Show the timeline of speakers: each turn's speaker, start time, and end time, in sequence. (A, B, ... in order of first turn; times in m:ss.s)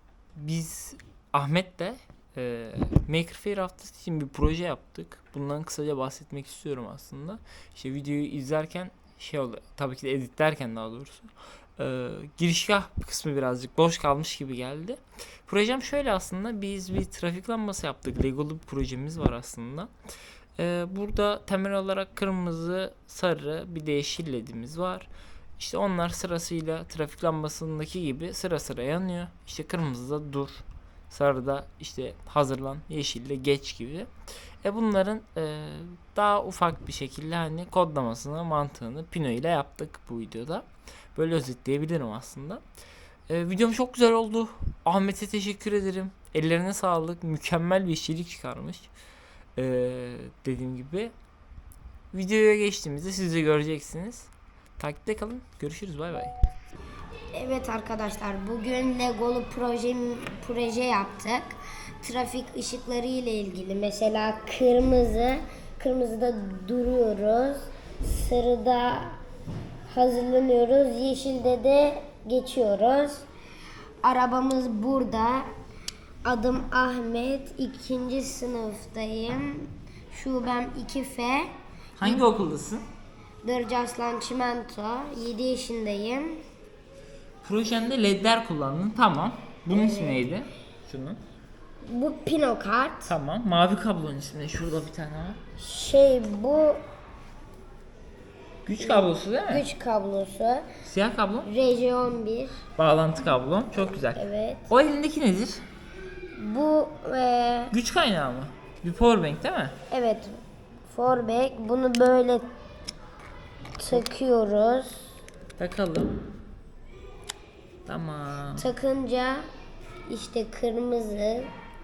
0:00.3-0:19.9 A
0:20.6-0:34.1 A
0:34.6-0:42.6 A
0:43.3-0:48.9 A
0:49.6-0:51.1 A
0:52.1-0:56.3 A
0:57.3-1:09.2 B
1:09.9-1:13.2 B
1:14.0-1:15.5 B
1:16.2-1:21.5 B
1:22.0-1:22.8 A
1:23.4-1:26.4 B
1:27.4-1:31.2 A
1:29.7-1:30.2 B
1:31.8-1:33.1 B
1:33.1-1:35.4 A
1:35.6-1:36.8 B
1:38.6-1:39.6 A
1:38.8-1:40.6 B
1:40.8-1:41.5 A
1:41.4-1:42.6 B
1:42.8-1:45.6 A
1:44.2-1:44.7 B
1:46.3-1:47.7 B
1:47.7-1:49.8 A
1:49.9-1:52.4 B
1:53.8-1:55.0 B
1:55.6-1:56.2 A
1:57.8-1:58.6 A
1:58.6-1:59.4 B
2:00.1-2:01.5 B